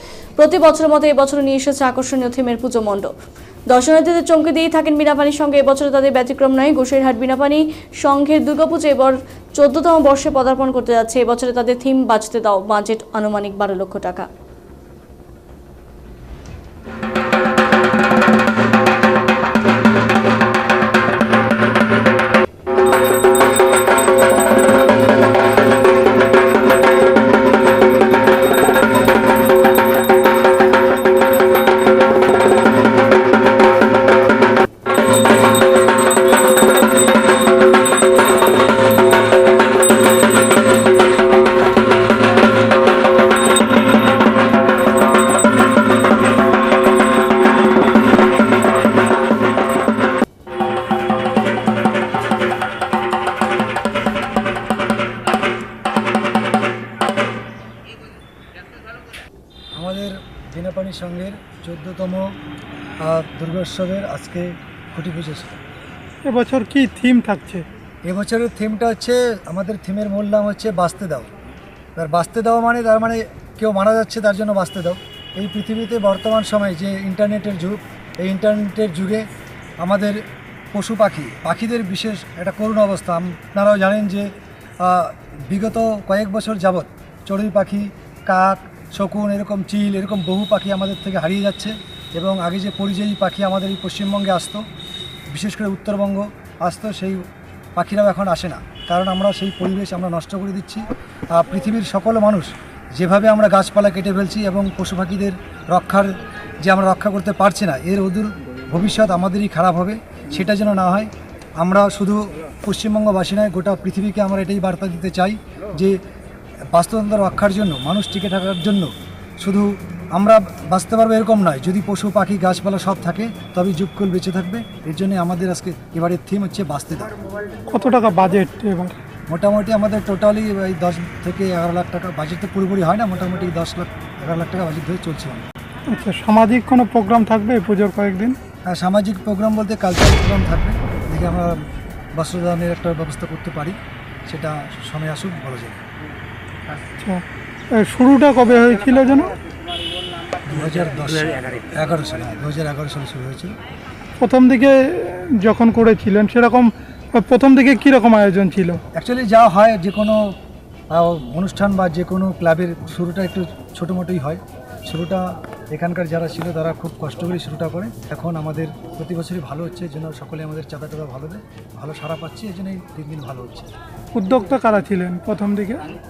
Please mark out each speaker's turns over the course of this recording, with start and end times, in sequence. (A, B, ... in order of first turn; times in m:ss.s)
0:00.4-0:03.1 A
0:03.7-0:14.3 A
0:59.7-1:02.3 B
1:03.0-1:05.6 B
1:06.2-1:07.6 C
1:08.0-1:11.3 B
1:12.0-1:19.2 B
1:19.8-1:20.2 B
1:20.7-1:34.6 B
1:35.3-1:37.2 B
1:37.8-1:56.0 B
1:56.7-2:07.1 B
2:07.7-2:09.0 C
2:09.3-2:15.4 B
2:15.9-2:18.4 C
2:18.6-2:21.6 B
2:22.2-2:25.8 B
2:27.0-2:29.3 C
2:30.4-2:33.5 B
2:34.2-2:38.8 C
2:38.9-2:40.4 B
2:40.9-2:53.7 B
2:54.1-2:55.8 C